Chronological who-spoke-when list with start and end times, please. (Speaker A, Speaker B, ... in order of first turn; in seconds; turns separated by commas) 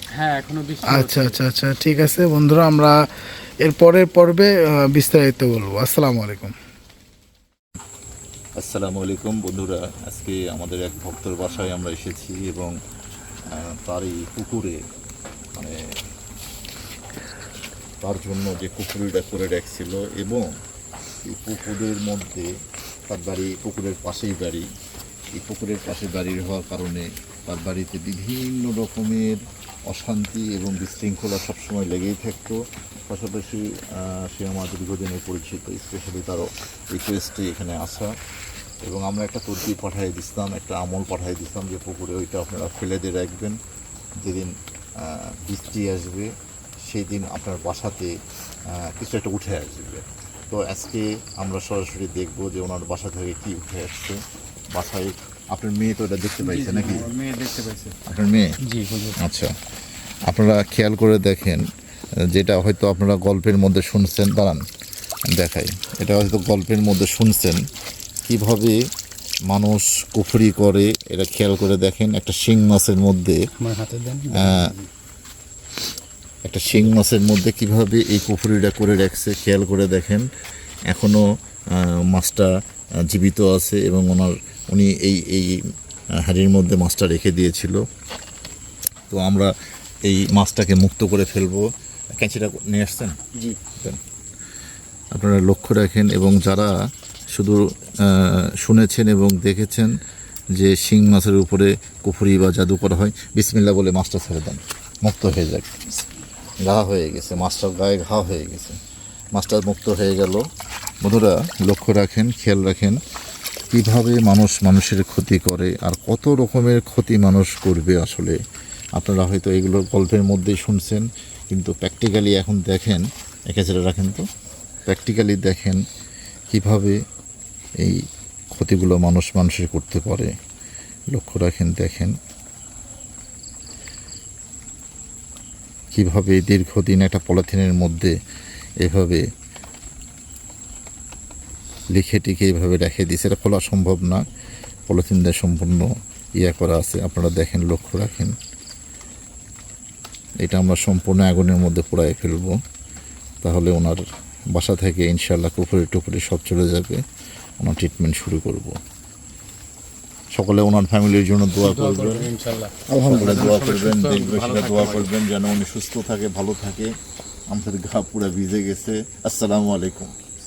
Speaker A: 0.2-1.4, Speaker B: 0.9-3.0, Speaker B: 3.6-6.5, Speaker C: 8.6-12.7, Speaker C: 13.5-14.8, Speaker C: 18.0-20.5, Speaker C: 21.2-22.5, Speaker C: 23.1-24.7, Speaker C: 25.3-38.1, Speaker C: 38.9-43.6, Speaker C: 44.2-46.3, Speaker C: 46.9-48.1, Speaker C: 48.7-54.2, Speaker C: 54.7-57.1, Speaker A: 56.4-58.0, Speaker C: 58.1-58.5, Speaker A: 58.6-59.2, Speaker C: 59.2-59.5, Speaker C: 60.3-61.7, Speaker C: 62.3-64.6, Speaker C: 65.3-67.6, Speaker C: 68.3-68.8, Speaker C: 69.5-73.4, Speaker A: 73.6-74.9, Speaker C: 74.3-74.7, Speaker C: 76.4-80.3, Speaker C: 80.9-82.5, Speaker C: 83.1-85.6, Speaker C: 86.2-87.8, Speaker C: 89.1-89.5, Speaker C: 90.1-91.7, Speaker C: 92.2-93.2, Speaker C: 95.1-96.8, Speaker C: 97.4-99.9, Speaker C: 100.6-106.0, Speaker C: 106.6-108.8, Speaker C: 109.4-110.4, Speaker C: 111.0-113.0, Speaker C: 113.7-118.4, Speaker C: 119.0-124.2, Speaker C: 124.9-125.8, Speaker C: 126.5-127.0, Speaker C: 128.6-130.3, Speaker C: 131.1-132.1, Speaker C: 135.9-138.2, Speaker C: 138.8-139.2, Speaker C: 141.9-144.2, Speaker C: 144.9-148.4, Speaker C: 150.4-152.6, Speaker C: 153.4-154.0, Speaker C: 154.6-157.0, Speaker C: 157.6-158.8, Speaker C: 160.3-162.3, Speaker A: 161.6-165.1, Speaker C: 162.9-166.9, Speaker C: 167.5-170.1